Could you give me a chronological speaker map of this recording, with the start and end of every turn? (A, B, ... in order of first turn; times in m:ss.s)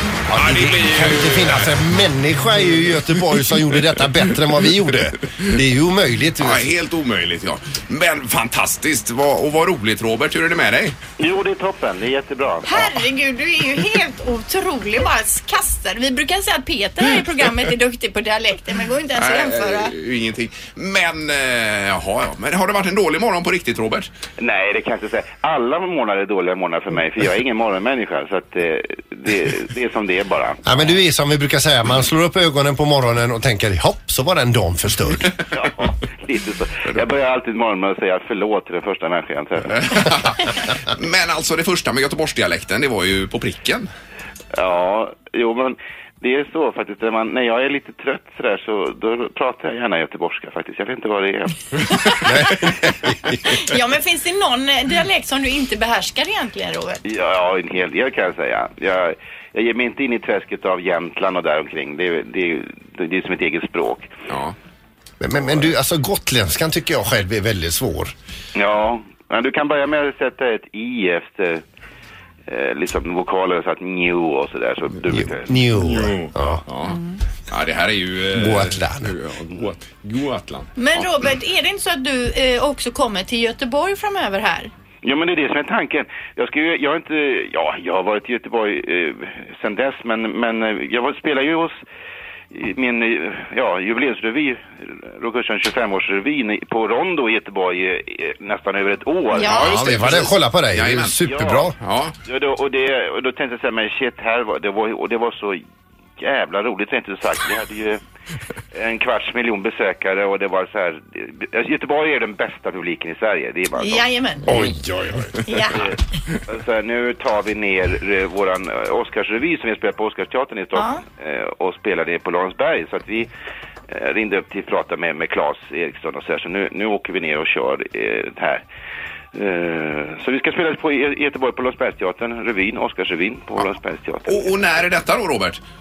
0:00.3-0:06.7 A
0:00.3-0:01.7 B
0:06.4-0:11.0 B
0:11.2-0:12.7 C
0:12.6-0:19.9 D
0:19.2-0:24.1 B
0:24.4-0:30.8 C
0:30.6-0:35.3 A
0:35.5-0:40.0 C
0:39.7-0:43.9 B
0:44.5-0:51.9 C
0:52.2-0:53.4 A
0:53.5-0:57.0 D
0:57.1-1:04.1 C
1:04.3-1:04.6 B
1:05.2-1:08.1 A
1:08.6-1:11.6 C
1:12.5-1:15.5 C
1:15.1-1:16.6 A
1:15.8-1:21.1 B
1:18.3-1:19.1 A
1:20.8-1:24.7 D
1:25.0-1:31.8 C
1:32.5-1:39.7 C
1:39.3-1:39.8 D
1:39.5-1:41.2 B
1:39.5-1:41.8 A
1:41.3-1:41.7 C
1:41.8-1:42.1 B
1:42.3-1:45.6 C
1:46.2-1:48.0 C
1:48.7-1:54.0 C
1:53.8-1:54.5 D
1:54.5-1:55.4 A
1:55.4-1:55.8 D
1:56.5-2:03.3 C
2:00.8-2:01.0 D
2:03.9-2:08.6 C
2:09.3-2:14.8 C
2:14.3-2:15.6 B